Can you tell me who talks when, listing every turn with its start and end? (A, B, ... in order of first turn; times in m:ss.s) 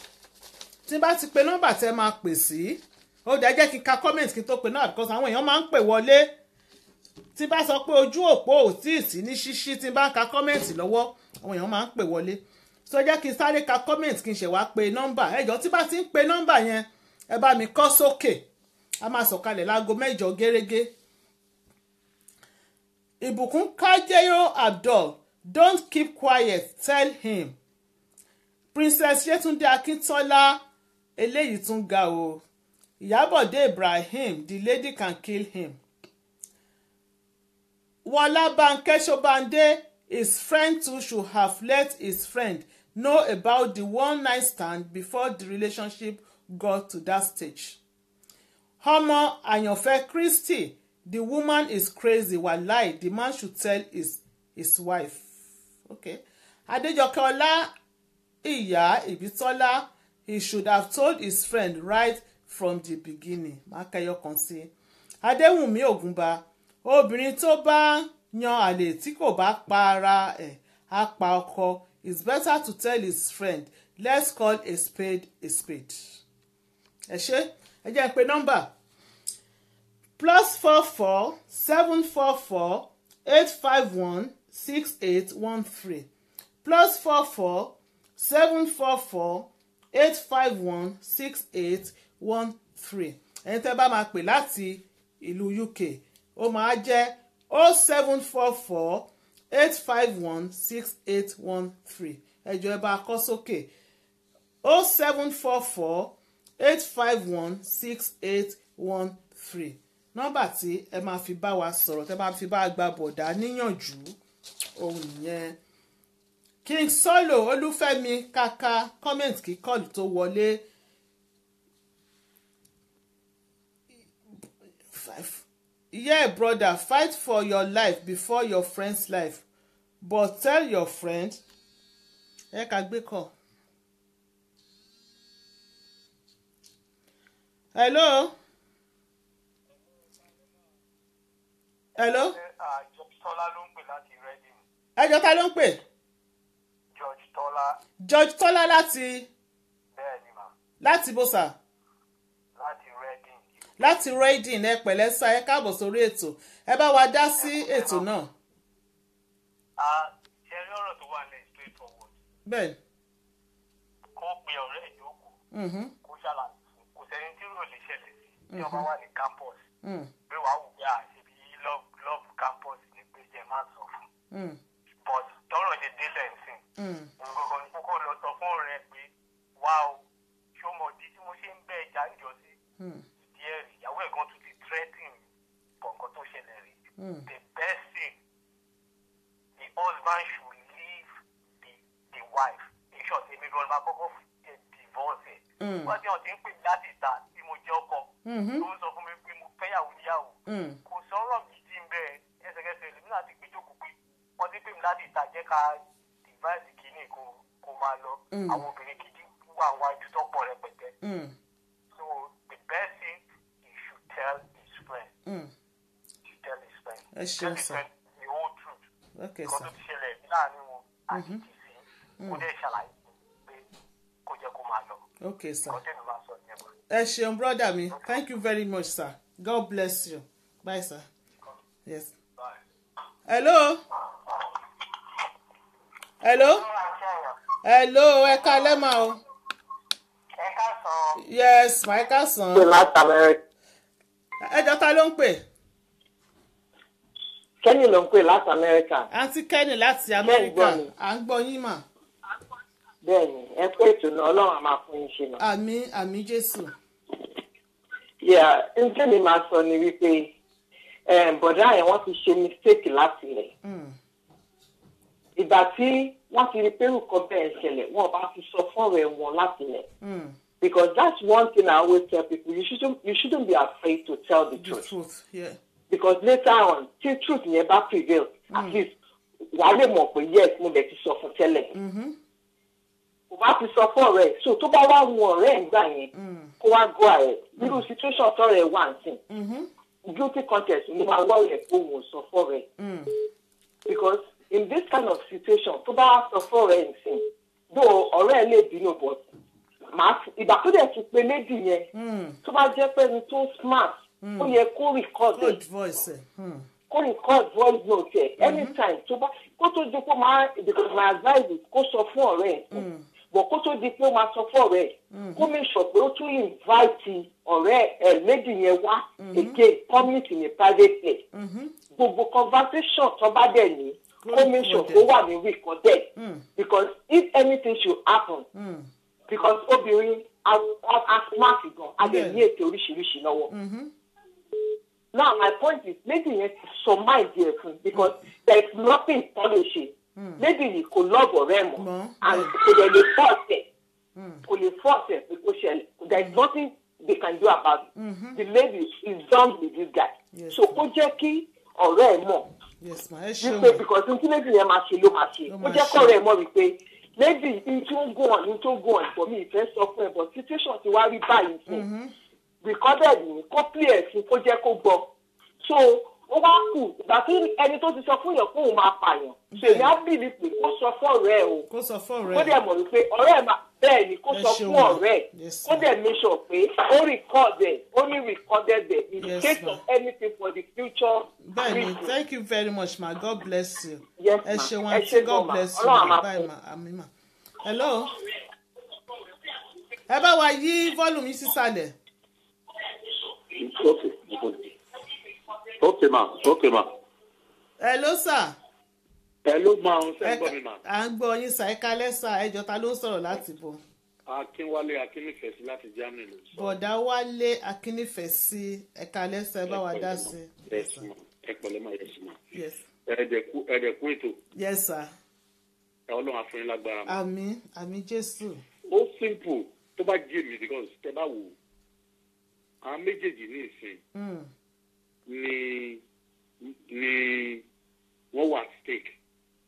0:00.9-0:06.3 A
0:07.4-0:18.4 A
0:19.0-0:20.9 A
0:23.2-0:27.5 A
0:28.7-0:30.6 A
0:31.2-0:32.4 A
0:33.0-0:35.8 A
0:38.0-0:47.8 A
0:48.8-0:55.3 A
0:55.9-0:57.7 A
0:58.4-1:04.7 A
1:05.2-1:16.2 A
1:17.1-1:18.7 A
1:20.2-1:26.1 A
1:26.6-1:43.7 A
1:44.6-1:54.2 A
1:54.8-1:55.6 A
1:56.6-2:00.6 A
2:04.9-2:09.4 A
2:10.0-2:11.4 A
2:12.5-2:13.3 A
2:17.7-2:18.3 A
2:22.0-2:22.4 A
2:22.3-2:24.6 B
2:25.0-2:25.8 A
2:26.9-2:27.8 B
2:28.0-2:29.3 A
2:29.9-2:30.5 B
2:30.8-2:31.6 A
2:32.6-2:33.4 B
2:33.8-2:38.3 A
2:37.4-2:38.1 B
2:39.8-2:42.1 B
2:42.5-2:42.8 A
2:44.2-2:45.4 B
2:45.5-2:45.9 A
2:46.0-2:49.6 B
2:48.5-2:48.9 A
2:49.8-2:50.1 A
2:50.3-2:54.0 B
2:54.3-2:54.6 A
2:55.0-2:56.6 B
2:56.8-2:57.1 A
2:57.2-3:00.0 B
3:00.6-3:02.6 B
3:02.8-3:03.1 A
3:03.2-3:05.2 B
3:05.8-3:06.8 B
3:07.0-3:07.3 A
3:07.3-3:08.1 B
3:09.6-3:11.1 B
3:11.6-3:31.0 B
3:15.6-3:16.0 A
3:18.2-3:18.7 A
3:20.5-3:20.8 A
3:28.3-3:28.6 A
3:31.0-3:31.3 A
3:31.9-3:35.1 B
3:35.3-3:35.5 A
3:36.3-3:38.8 B
3:37.1-3:37.8 A
3:39.2-3:39.7 A
3:39.5-3:43.6 B
3:41.1-3:41.4 A
3:44.3-3:45.0 B
3:45.2-3:45.8 A
3:45.7-3:46.7 B
3:46.9-3:51.1 A
3:47.9-3:48.2 B
3:51.9-3:52.1 A
3:53.3-3:53.8 A
3:56.2-3:56.7 A
3:56.5-3:57.4 B
3:57.6-3:59.2 A
4:00.4-4:01.2 B
4:01.2-4:02.7 A
4:02.6-4:03.4 C
4:04.4-4:05.4 A
4:07.6-4:09.1 C
4:09.1-4:11.8 A
4:10.2-4:10.9 C
4:13.0-4:15.4 C
4:15.4-4:16.7 A
4:18.2-4:20.3 C
4:21.1-4:23.5 C
4:23.6-4:24.0 A
4:25.4-4:29.9 C
4:30.0-4:30.4 A
4:30.6-4:34.9 C
4:34.6-4:35.6 A
4:35.9-4:38.9 C
4:38.5-4:38.8 A
4:39.5-4:41.7 C
4:41.7-4:42.2 A
4:43.3-4:49.2 C
4:46.1-4:46.5 A
4:47.6-4:47.8 A
4:49.3-4:49.7 A
4:50.1-4:52.7 C
4:52.8-4:53.1 A
4:53.9-4:59.2 C
4:59.9-5:01.9 C
5:01.9-5:02.4 A
5:02.4-5:05.6 C
5:04.2-5:04.6 A
5:05.4-5:06.7 A
5:06.9-5:21.2 C
5:08.4-5:08.8 A
5:12.7-5:13.0 A
5:15.1-5:15.5 A
5:19.2-5:19.6 A
5:21.3-5:21.8 A
5:21.9-5:28.5 C
5:24.2-5:25.1 A
5:26.2-5:26.5 A
5:28.5-5:28.9 A
5:29.3-5:33.5 C
5:32.0-5:32.4 A
5:33.5-5:33.9 A
5:35.1-5:43.7 C
5:40.2-5:40.4 A
5:41.8-5:42.6 A
5:44.2-5:44.4 A
5:44.5-5:52.5 C
5:46.1-5:46.4 A
5:48.0-5:48.4 A
5:50.3-5:50.8 A
5:52.8-5:53.8 A
5:53.4-6:01.9 C
5:55.5-5:56.2 A
6:01.7-6:02.1 A
6:02.6-6:05.1 C
6:05.6-6:11.7 C
6:09.5-6:09.9 A
6:11.7-6:12.6 A
6:12.3-6:22.1 C
6:14.3-6:15.9 A
6:19.2-6:19.8 A
6:21.4-6:27.1 A
6:24.2-6:26.5 C
6:27.6-6:28.2 A
6:30.1-6:32.0 A
6:33.6-6:34.7 D
6:35.8-6:36.9 D
6:37.8-6:38.6 A
6:39.4-6:40.8 D
6:40.2-6:43.8 A
6:44.3-6:46.8 D
6:46.6-6:51.1 A
6:49.7-6:52.4 D
6:52.5-6:52.8 A
6:53.1-6:54.4 D
6:54.6-6:55.1 A
6:56.1-6:57.2 D
6:57.1-6:58.6 A
6:58.9-7:01.6 D
7:02.8-7:04.0 D
7:04.2-7:04.5 A
7:05.3-7:06.0 D
7:06.6-7:07.6 D
7:08.3-7:09.2 D